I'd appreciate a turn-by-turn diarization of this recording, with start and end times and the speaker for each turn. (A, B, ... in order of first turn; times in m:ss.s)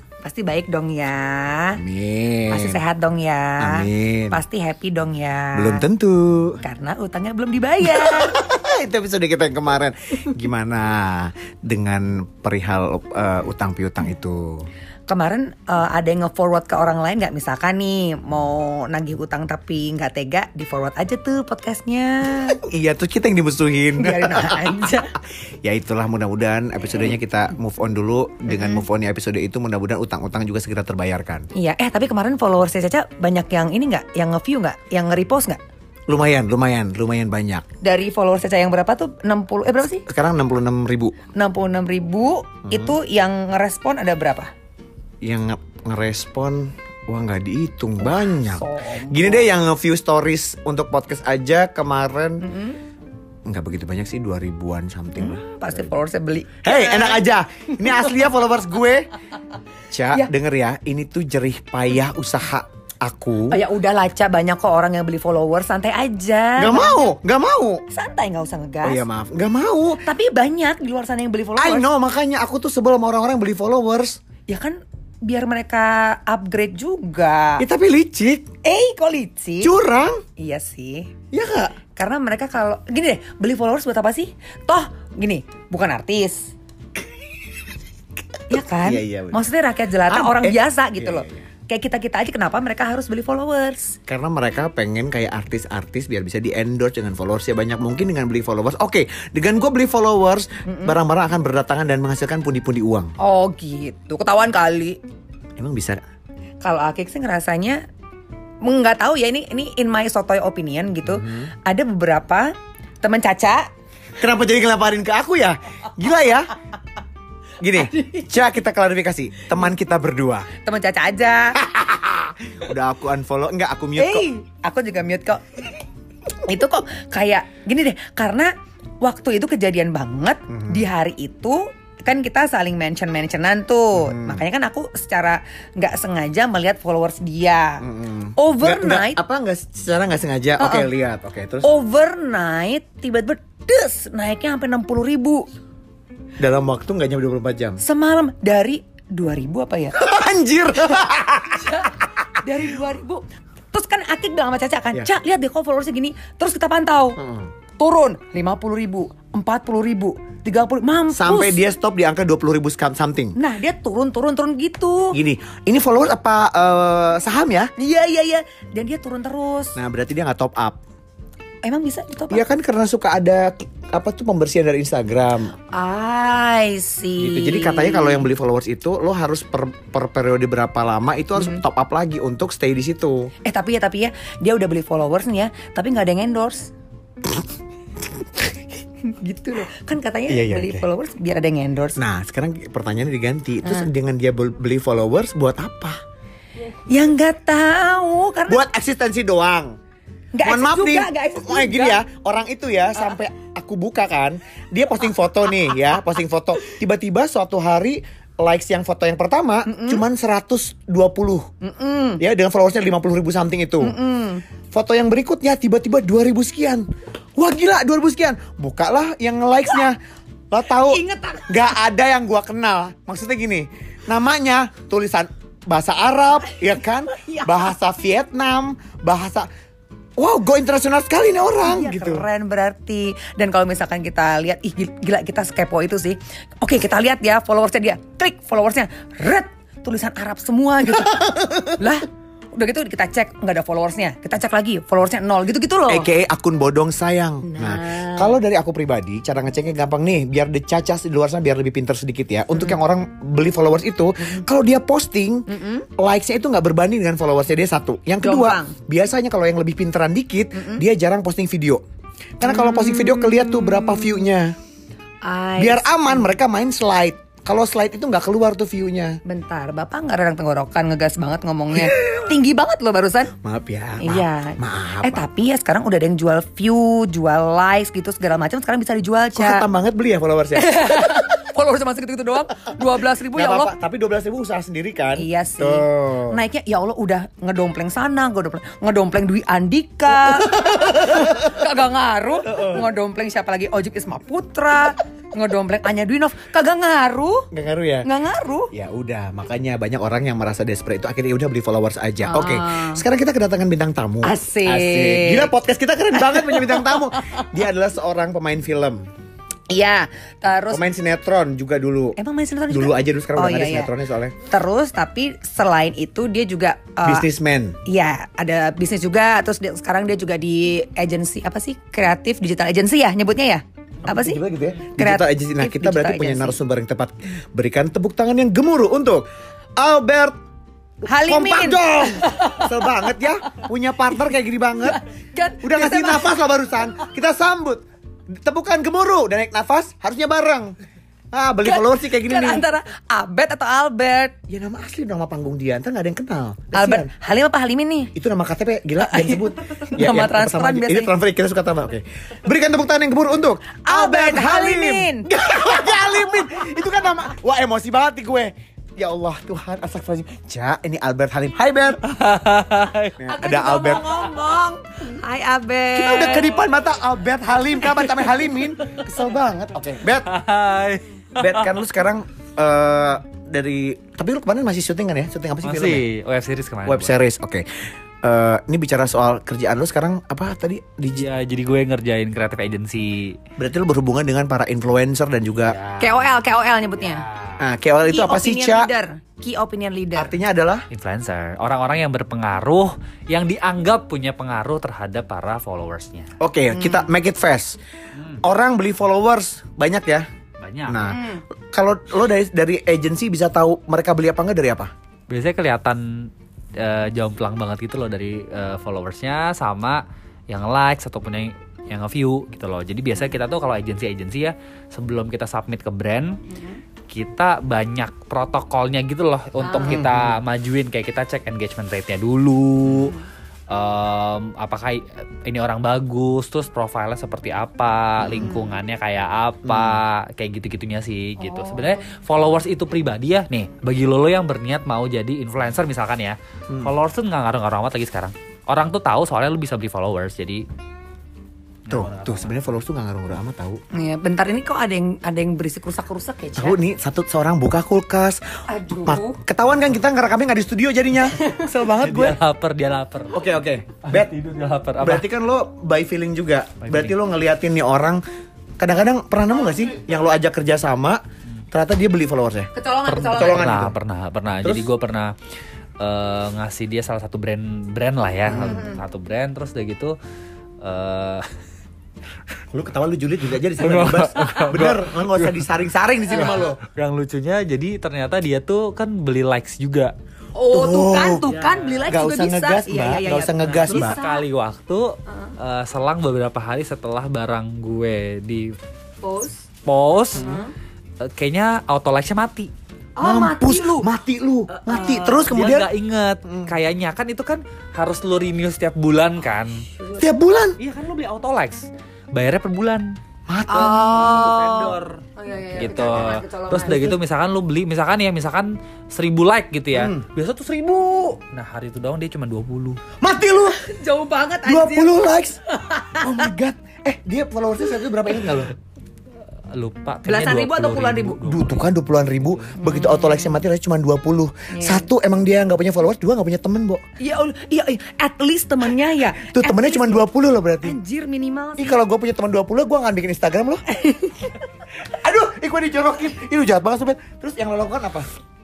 0:00.2-0:01.8 A
0:01.8-0:02.8 B
0:02.5-0:05.8 A
0:03.6-0:04.4 B
0:05.6-0:06.6 B
0:06.6-0:08.3 A
0:07.8-0:14.7 B
0:15.1-0:22.6 A
0:22.6-0:24.9 B
0:24.0-0:25.1 A
0:25.6-0:31.5 B
0:28.5-0:28.8 A
0:31.6-0:35.6 A
0:36.1-0:37.6 B
0:37.8-0:40.0 A
0:40.1-0:41.2 B
0:41.3-0:44.5 A
0:42.7-0:43.0 B
0:45.2-0:52.4 B
0:48.1-0:49.5 A
0:52.4-0:52.8 A
0:53.5-0:55.9 B
0:55.2-0:57.2 A
0:56.6-0:59.1 B
0:59.9-1:03.6 B
1:03.5-1:07.1 A
1:06.6-1:07.8 B
1:07.9-1:09.0 A
1:08.8-1:10.0 B
1:10.0-1:11.8 A
1:11.6-1:14.2 B
1:14.5-1:17.6 A
1:17.6-1:18.5 B
1:18.6-1:19.7 A
1:19.6-1:20.2 B
1:20.4-1:21.1 A
1:21.3-1:21.8 B
1:21.9-1:26.5 A
1:28.5-1:34.0 A
1:28.5-1:29.5 B
1:30.1-1:31.5 B
1:34.1-1:43.1 B
1:40.6-1:41.0 A
1:43.2-1:45.0 A
1:45.6-1:46.0 B
1:46.6-1:47.8 A
1:48.6-1:53.7 A
1:51.1-1:51.5 B
1:54.2-1:56.5 B
1:57.6-2:00.5 B
2:00.6-2:01.6 A
2:01.6-2:04.3 B
2:04.0-2:05.7 A
2:06.4-2:08.5 A
2:09.0-2:17.8 A
2:10.5-2:10.9 B
2:14.0-2:14.4 B
2:17.8-2:21.7 B
2:18.4-2:19.2 A
2:20.6-2:20.9 A
2:21.6-2:25.5 A
2:26.4-2:27.8 B
2:27.8-2:30.0 A
2:29.9-2:31.7 B
2:31.7-2:37.2 A
2:37.2-2:37.5 B
2:37.8-2:41.6 A
2:41.1-2:43.4 B
2:43.4-2:45.2 A
2:45.1-2:47.7 B
2:47.8-2:49.8 A
2:49.8-2:50.8 B
2:51.6-2:52.4 A
2:52.3-2:55.6 B
2:55.7-2:58.3 A
2:57.2-3:03.3 B
3:01.4-3:01.6 A
3:03.4-3:06.7 A
3:09.0-3:12.0 A
3:10.3-3:10.9 B
3:12.0-3:16.0 B
3:13.6-3:13.9 A
3:16.9-3:18.6 A
3:18.5-3:19.8 B
3:20.3-3:22.0 A
3:20.4-3:31.5 B
3:29.7-3:30.0 A
3:31.6-3:32.2 A
3:32.2-3:34.0 B
3:33.8-3:34.4 A
3:34.7-3:40.0 B
3:40.5-3:49.5 B
3:40.8-3:41.6 A
3:47.1-3:47.6 A
3:50.2-3:52.3 B
3:51.6-4:06.1 A
4:01.0-4:01.8 B
4:05.9-4:21.8 B
4:07.5-4:08.4 A
4:15.5-4:15.9 A
4:18.2-4:18.8 A
4:20.6-4:20.8 A
4:22.4-4:24.6 B
4:22.4-4:24.2 A
4:25.2-4:26.3 A
4:25.6-4:29.2 B
4:29.3-4:33.3 A
4:33.4-4:35.2 B
4:34.0-4:39.7 A
4:39.4-4:40.9 B
4:40.6-4:43.7 A
4:43.3-4:46.4 B
4:45.2-4:57.5 A
4:50.4-4:51.2 B
4:52.5-4:52.8 B
4:57.5-4:58.1 B
4:58.0-4:58.7 A
4:58.7-5:09.1 B
5:02.3-5:03.0 A
5:04.2-5:05.5 A
5:06.2-5:07.4 A
5:09.7-5:10.9 A
5:10.7-5:12.2 B
5:12.2-5:13.9 A
5:12.7-5:14.4 B
5:14.5-5:17.3 A
5:17.0-5:17.8 B
5:17.9-5:24.4 A
5:24.1-5:29.2 B
5:25.0-5:26.6 A
5:29.8-5:30.3 B
5:31.0-5:32.9 A
5:31.1-5:35.0 B
5:34.9-5:36.4 A
5:35.6-5:40.8 B
5:41.3-5:42.6 B
5:41.6-5:44.3 A
5:44.5-5:47.1 B
5:46.7-5:48.1 A
5:48.2-6:02.0 B
5:49.0-5:51.1 A
5:53.8-5:55.3 A
6:02.0-6:03.3 C
6:03.2-6:04.1 B
6:03.2-6:06.5 A
6:06.0-6:10.3 B
6:10.3-6:11.7 C
6:11.4-6:16.0 B
6:15.6-6:17.1 C
6:16.8-6:17.7 B
6:18.2-6:21.3 B
6:21.1-6:23.4 C
6:23.6-6:25.8 B
6:25.6-6:26.3 C
6:26.0-6:27.2 A
6:27.0-6:27.6 C
6:27.6-6:28.9 B
6:28.1-6:30.4 A
6:30.2-6:30.9 B
6:30.9-6:36.3 C
6:36.4-6:37.8 B
6:36.7-6:37.1 A
6:38.2-6:38.4 C
6:38.4-6:40.3 B
6:40.6-6:41.2 C
6:40.9-6:44.9 B
6:41.1-6:41.4 A
6:45.3-6:56.4 C
6:56.5-6:56.8 A
6:57.1-7:03.2 C
6:59.6-7:00.0 A
6:59.8-7:00.4 B
7:02.9-7:03.2 A
7:03.7-7:20.6 C
7:08.4-7:08.8 A
7:09.6-7:10.0 B
7:11.4-7:12.1 A
7:21.9-7:22.7 C
7:21.9-7:23.8 B
7:23.9-7:26.8 A
7:26.6-7:32.4 B
7:28.7-7:29.4 A
7:32.0-7:33.5 C
7:33.3-7:34.3 B
7:34.0-7:35.3 C
7:35.0-7:38.2 B
7:36.8-7:37.1 C
7:38.8-7:44.0 B
7:42.8-7:43.8 A
7:43.2-7:45.4 C
7:44.6-7:44.9 B
7:46.0-7:50.2 C
7:48.5-7:48.9 B
7:48.6-7:49.0 A
7:50.8-7:51.4 C
7:52.7-7:56.8 B
7:53.8-7:55.7 C
7:56.3-8:00.1 C
8:00.6-8:04.4 A
8:00.7-8:04.2 B
8:01.5-8:02.1 C
8:03.6-8:08.8 C
8:05.3-8:05.5 A
8:09.2-8:09.6 A
8:09.9-8:10.6 C
8:10.3-8:10.7 A
8:11.2-8:12.7 C
8:13.2-8:14.1 A
8:13.2-8:15.9 B
8:14.7-8:15.4 A
8:14.9-8:19.8 C
8:16.5-8:16.7 B
8:19.9-8:20.3 A
8:20.2-8:20.8 B
8:20.8-8:23.1 C
8:23.5-8:24.5 B
8:23.7-8:27.2 A
8:23.8-8:25.2 C
8:25.8-8:33.0 C
8:29.9-8:30.3 B
8:33.2-8:33.8 B
8:33.7-8:36.5 A
8:34.7-8:35.6 B
8:36.1-8:38.7 B
8:39.7-8:41.9 C
8:40.2-8:41.4 A
8:41.4-8:47.0 B
8:42.8-8:43.6 A
8:44.7-8:45.1 A
8:47.2-8:50.2 A
8:49.4-8:51.0 B
8:50.8-8:52.0 A
8:51.8-8:53.8 B
8:53.9-8:54.6 A
8:55.0-8:58.3 B